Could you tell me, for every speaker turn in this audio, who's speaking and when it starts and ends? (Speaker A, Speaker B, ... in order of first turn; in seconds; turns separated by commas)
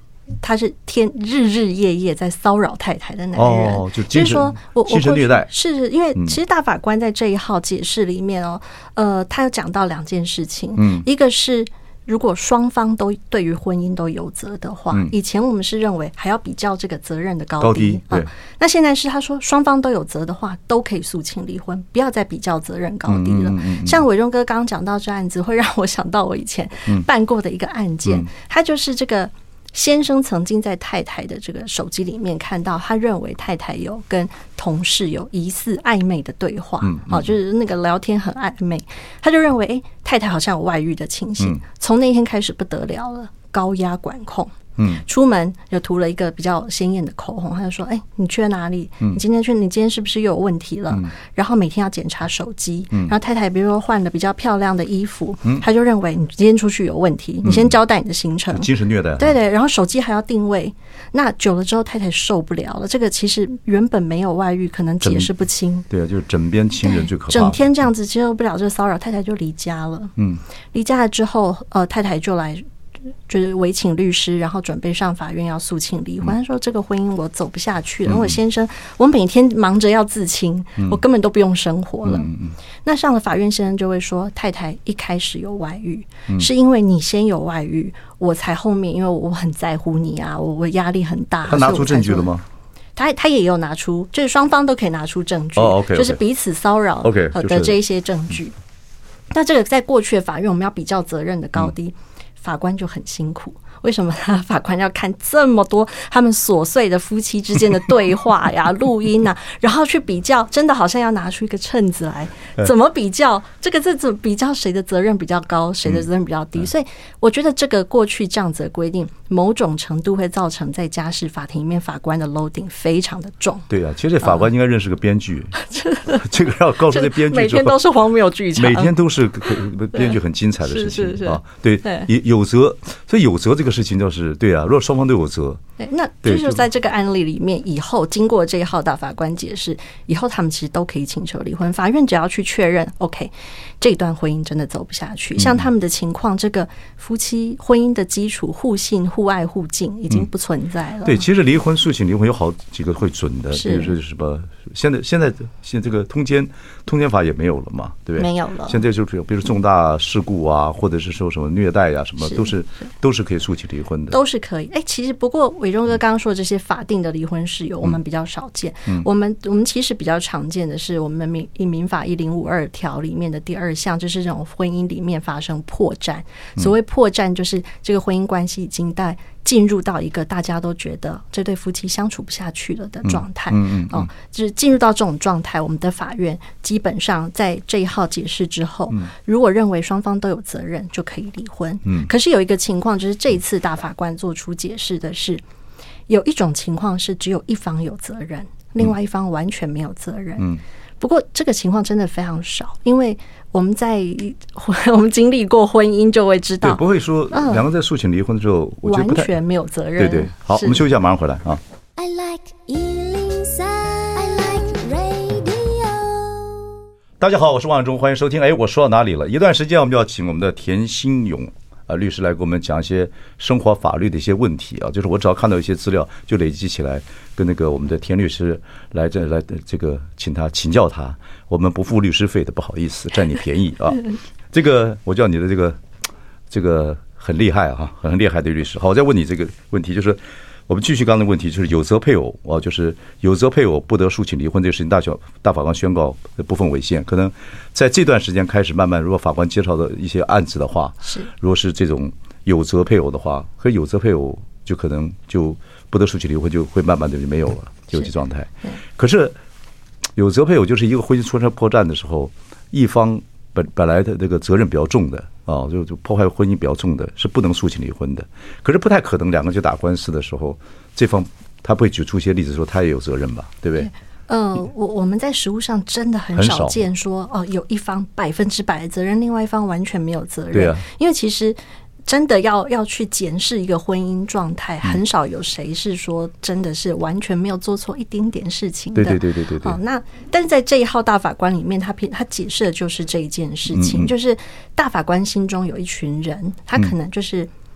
Speaker A: 0.4-65.9, Speaker B: 3.4-5.5, Speaker B: 10.8-11.1, Speaker B: 17.6-18.3, Speaker B: 23.1-24.0, Speaker B: 36.8-37.3, Speaker B: 44.8-45.0, Speaker B: 57.4-57.7, Speaker B: 58.5-59.4, Speaker B: 65.0-65.3, Speaker B: 65.9-67.6, Speaker A: 66.8-70.1, Speaker A: 70.7-72.6, Speaker A: 73.3-82.3, Speaker B: 78.1-78.4, Speaker B: 82.0-82.5, Speaker A: 82.8-92.3, Speaker B: 91.5-92.5, Speaker A: 93.0-98.5, Speaker B: 95.6-96.2, Speaker B: 97.0-97.8, Speaker A: 99.3-123.7, Speaker B: 123.7-125.6, Speaker A: 125.6-128.9, Speaker B: 126.1-127.8, Speaker B: 128.6-135.6, Speaker A: 129.9-132.1, Speaker A: 135.8-151.3, Speaker B: 136.2-136.6, Speaker B: 151.0-164.2, Speaker A: 153.5-153.9, Speaker A: 158.2-158.8, Speaker A: 164.1-195.4, Speaker B: 183.0-184.1, Speaker A: 196.1-206.8, Speaker B: 206.6-209.3, Speaker A: 207.3-207.6, Speaker A: 208.8-210.8, Speaker B: 210.0-211.6, Speaker C: 212.0-216.7, Speaker B: 217.2-235.8, Speaker B: 236.5-259.4, Speaker A: 251.0-251.3, Speaker B: 260.2-273.9, Speaker A: 273.8-297.5, Speaker B: 276.3-276.8, Speaker B: 280.5-280.9, Speaker B: 289.0-289.8, Speaker B: 293.7-294.1